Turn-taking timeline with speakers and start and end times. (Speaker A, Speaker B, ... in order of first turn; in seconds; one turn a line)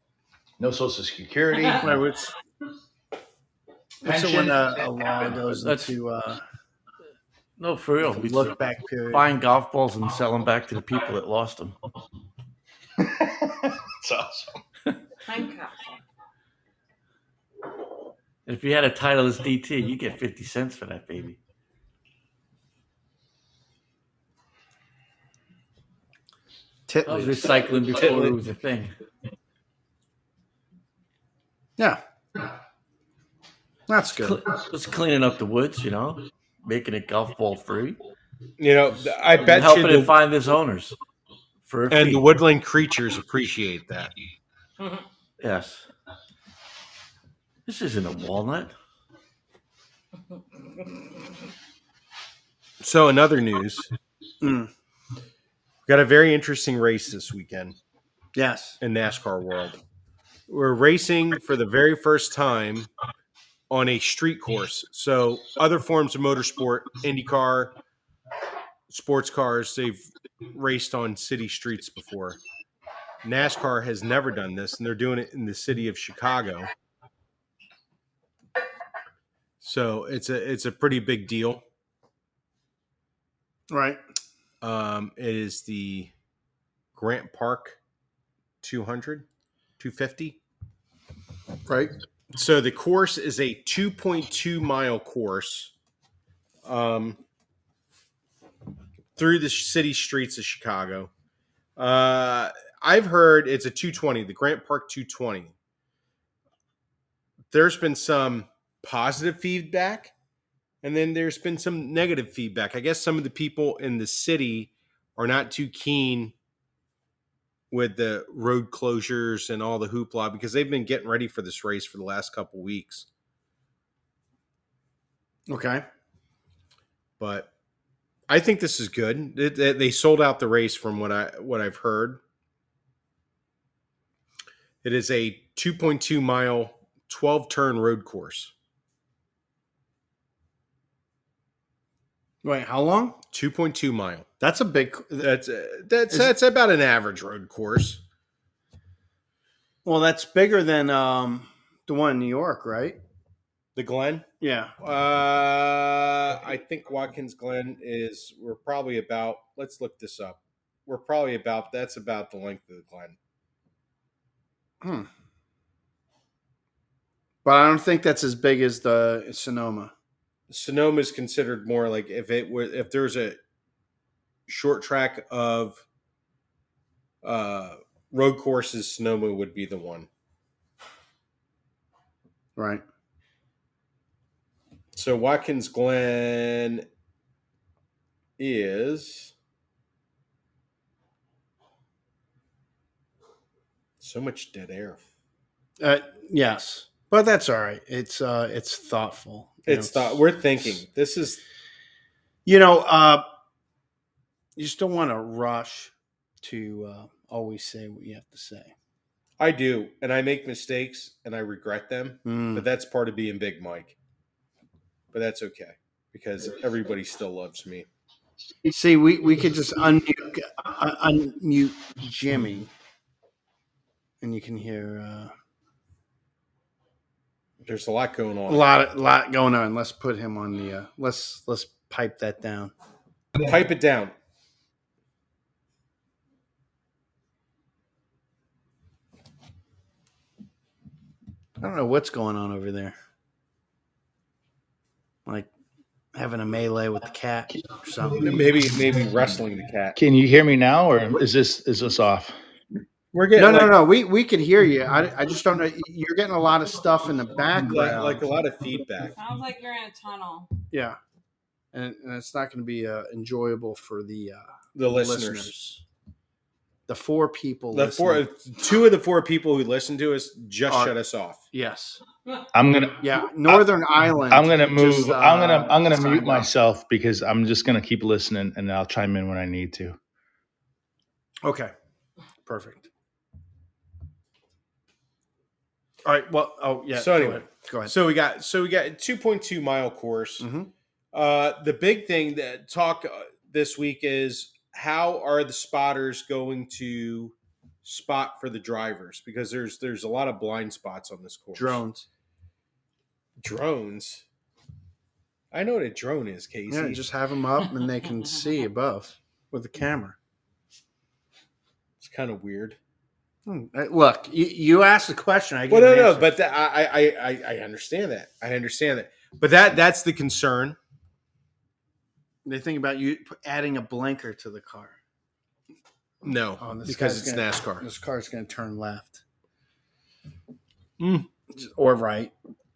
Speaker A: 0.6-2.0
Speaker B: 1.8-2.3
Speaker B: 4.0-6.4
Speaker A: 4.1-4.6
Speaker C: 5.5-5.9
Speaker C: 7.6-8.6
Speaker B: 8.0-9.3
Speaker C: 9.1-11.8
Speaker A: 14.0-14.5
Speaker D: 15.3-16.0
Speaker C: 18.5-21.4
Speaker B: 26.9-28.4
Speaker C: 27.1-28.9
Speaker B: 33.9-34.4
Speaker C: 34.1-38.0
Speaker E: 38.6-40.2
Speaker C: 39.3-41.0
Speaker C: 41.6-42.2
Speaker E: 41.9-44.1
Speaker C: 45.4-45.9
Speaker C: 47.7-48.7
Speaker E: 52.8-53.9
Speaker B: 54.4-54.7
Speaker E: 55.9-57.8
Speaker B: 58.4-58.8
Speaker E: 58.8-59.8
Speaker E: 60.5-62.9
Speaker E: 63.7-67.7
Speaker E: 68.9-72.4
Speaker E: 73.2-76.7
Speaker E: 79.6-81.6
Speaker B: 83.7-84.0
Speaker E: 84.6-86.1
Speaker E: 87.0-87.8
Speaker E: 88.6-89.3
Speaker E: 89.8-90.4
Speaker B: 91.7-91.9
Speaker E: 92.3-95.7
Speaker E: 96.7-97.2
Speaker E: 99.2-101.1
Speaker E: 101.8-105.5
Speaker E: 107.5-110.1
Speaker E: 110.8-116.3
Speaker E: 117.7-123.1
Speaker B: 125.5-125.8
Speaker E: 127.2-127.5
Speaker E: 128.3-132.2
Speaker E: 134.8-138.5
Speaker B: 142.4-143.2
Speaker E: 143.3-144.3
Speaker B: 144.4-145.3
Speaker E: 145.2-148.0
Speaker B: 149.8-153.0
Speaker E: 153.8-154.3
Speaker B: 154.4-154.7
Speaker E: 154.8-163.2
Speaker B: 164.8-165.1
Speaker B: 167.4-169.9
Speaker E: 170.5-173.4
Speaker E: 174.5-175.8
Speaker E: 177.2-180.1
Speaker B: 182.6-182.8
Speaker E: 184.9-186.9
Speaker E: 188.4-189.3
Speaker E: 194.0-195.0
Speaker B: 195.8-200.8
Speaker E: 199.7-201.4
Speaker B: 202.5-203.2
Speaker B: 204.6-208.7
Speaker E: 209.4-213.9
Speaker B: 212.2-212.7
Speaker E: 215.1-217.9
Speaker B: 218.7-222.7
Speaker B: 224.2-225.3
Speaker E: 227.6-228.7
Speaker B: 228.5-232.7
Speaker E: 233.4-234.1
Speaker B: 241.6-243.0
Speaker B: 246.1-248.4
Speaker E: 248.2-250.0
Speaker A: 250.0-252.3
Speaker E: 253.1-253.8
Speaker B: 253.4-258.2
Speaker E: 257.6-259.1
Speaker D: 259.1-260.5
Speaker B: 260.7-261.0
Speaker B: 261.7-265.8
Speaker E: 264.8-265.5
Speaker B: 266.9-268.2
Speaker E: 267.7-271.4
Speaker B: 270.7-270.9
Speaker B: 271.5-272.0
Speaker A: 272.6-272.9
Speaker B: 273.0-276.5
Speaker A: 274.3-279.9
Speaker B: 281.4-281.7
Speaker B: 282.5-282.9
Speaker B: 286.1-287.9
Speaker E: 286.9-290.5
Speaker B: 290.4-290.7
Speaker E: 291.1-301.8
Speaker B: 301.6-302.1
Speaker E: 303.4-304.2
Speaker E: 305.5-307.0
Speaker B: 306.7-310.2
Speaker E: 312.0-312.8
Speaker B: 313.5-316.3
Speaker E: 315.7-320.8
Speaker B: 322.4-325.0
Speaker E: 326.2-327.9
Speaker B: 326.6-329.2
Speaker E: 331.0-331.3
Speaker B: 331.5-332.3